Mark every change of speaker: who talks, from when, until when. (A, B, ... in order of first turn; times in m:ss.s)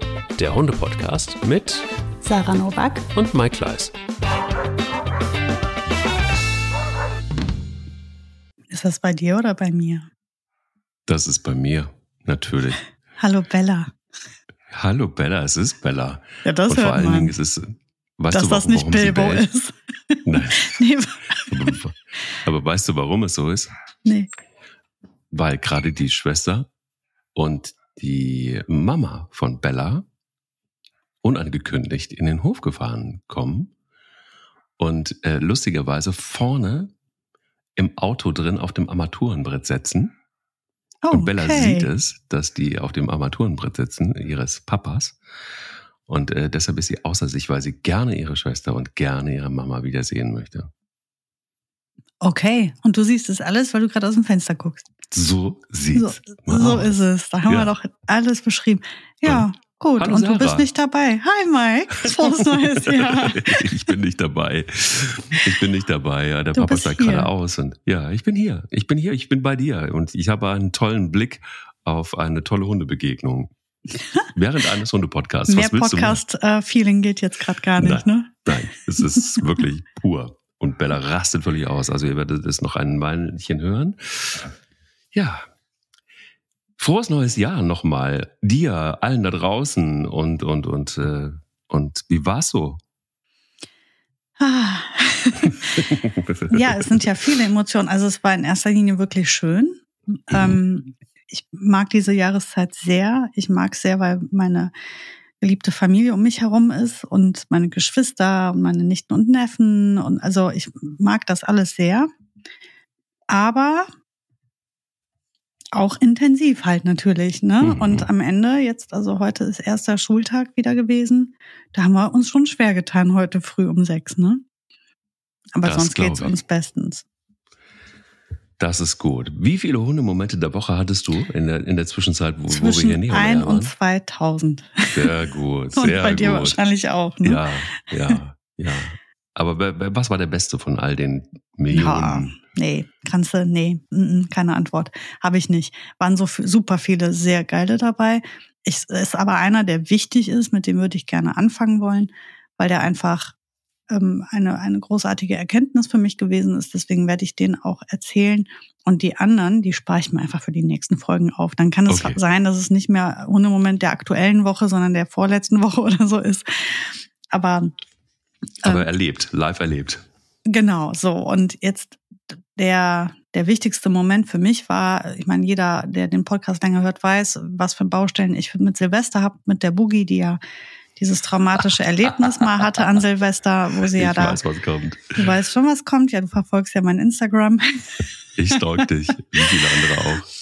0:00.4-0:01.9 A
0:02.2-0:03.1 B
0:03.1-0:03.9 A
0:08.7-0:10.1 B
0:11.1-0:12.8 A
0:13.2-0:14.0 B
0:14.7-0:19.5 A
0:16.4-0:17.4 B
0:18.3-0:21.8 B
0:20.2-0:20.8 A
0:21.5-0:23.7 A
0:25.3-0:26.7 A
0:27.4-0:30.1 A
0:31.2-0:33.7 A
0:34.8-0:36.9 A
0:37.8-0:40.2 A
0:41.0-0:41.9 B
0:41.1-0:45.2 A
0:46.1-0:50.7 A
0:52.2-0:54.9 B
0:55.1-0:56.9 A
0:55.9-1:03.7 B
0:57.5-0:57.7 A
1:00.0-1:00.7 A
1:02.1-1:13.5 A
1:06.5-1:07.3 B
1:14.3-1:16.2 A
1:15.5-1:19.4 B
1:17.8-1:24.5 A
1:25.1-1:25.4 A
1:26.8-1:32.8 A
1:34.4-1:35.8 B
1:35.4-1:37.0 A
1:36.5-1:44.7 B
1:40.3-1:40.6 A
1:45.4-1:52.1 B
1:53.3-1:53.9 B
1:55.8-2:04.4 B
1:57.6-1:58.1 A
2:05.6-2:07.0 B
2:05.6-2:06.3 A
2:08.6-2:13.7 A
2:12.5-2:15.1 B
2:14.9-2:16.6 A
2:15.8-2:18.2 B
2:17.2-2:22.4 A
2:21.7-2:33.4 B
2:33.9-2:47.7 B
2:41.9-2:42.2 A
2:48.6-2:50.0 A
2:50.5-2:52.0 B
2:52.6-3:00.4 B
3:01.0-3:04.4 B
3:03.9-3:05.3 A
3:05.2-3:08.6 B
3:08.4-3:10.3 A